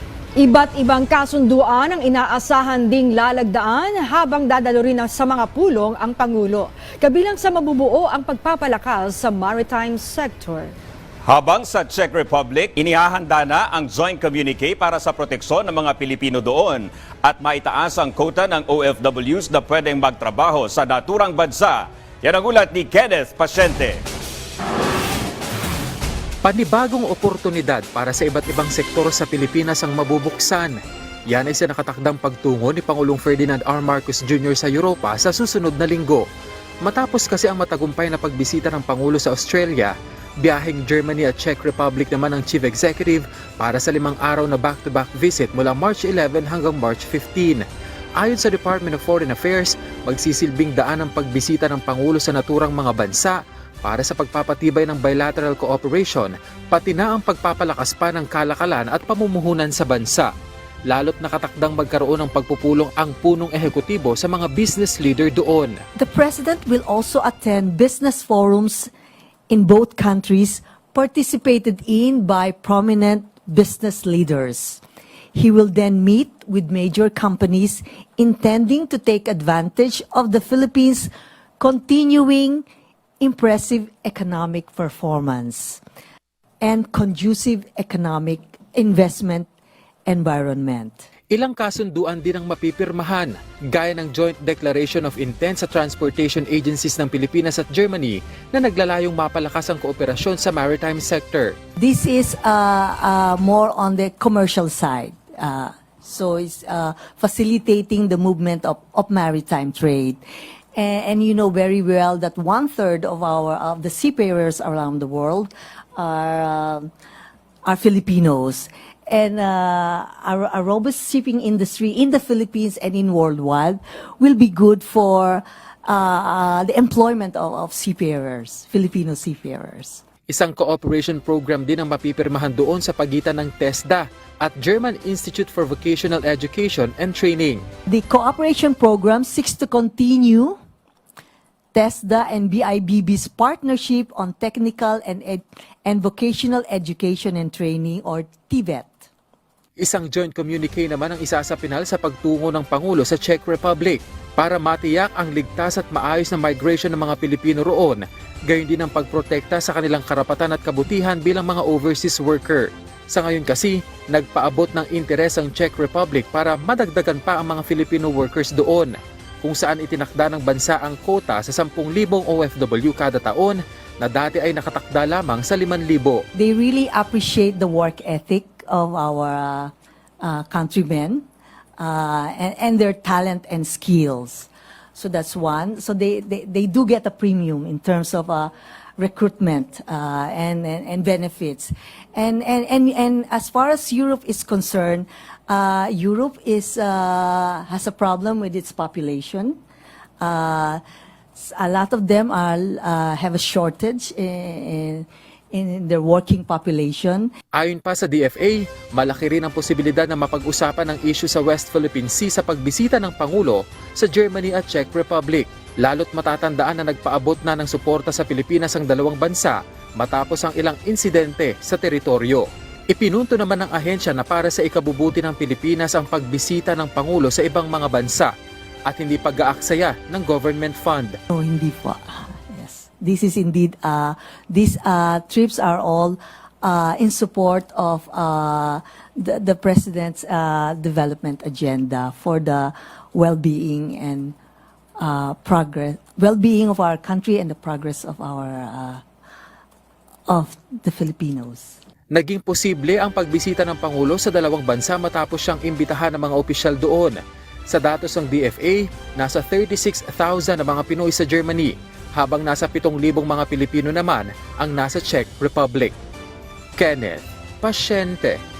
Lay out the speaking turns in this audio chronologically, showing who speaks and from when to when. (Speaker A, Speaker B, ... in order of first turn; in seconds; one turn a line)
Speaker A: 0.4-10.7
Speaker B: 11.3-24.0
Speaker C: 26.4-36.2
Speaker C: 36.8-47.6
Speaker C: 48.2-60.3
Speaker C: 60.9-65.8
Speaker D: 66.0-68.9
Speaker D: 69.5-74.8
Speaker D: 75.3-82.6
Speaker D: 83.2-85.8
Speaker D: 86.6-89.5
Speaker D: 90.0-91.0
Speaker C: 91.3-101.5
Speaker D: 101.8-110.2
Speaker D: 110.8-116.9
Speaker D: 117.7-130.0
Speaker C: 130.3-137.6
Speaker D: 137.9-140.6
Speaker D: 141.7-149.1
Speaker C: 149.8-176.2
Speaker D: 176.3-181.2
Speaker D: 181.8-199.6
Speaker D: 200.2-200.8
Speaker D: 201.3-207.3
Speaker C: 207.6-228.3
Speaker C: 228.9-231.2
Speaker D: 231.3-244.3
Speaker D: 245.0-249.0
Speaker D: 250.3-251.7
Speaker C: 252.1-265.9
Speaker C: 266.8-268.4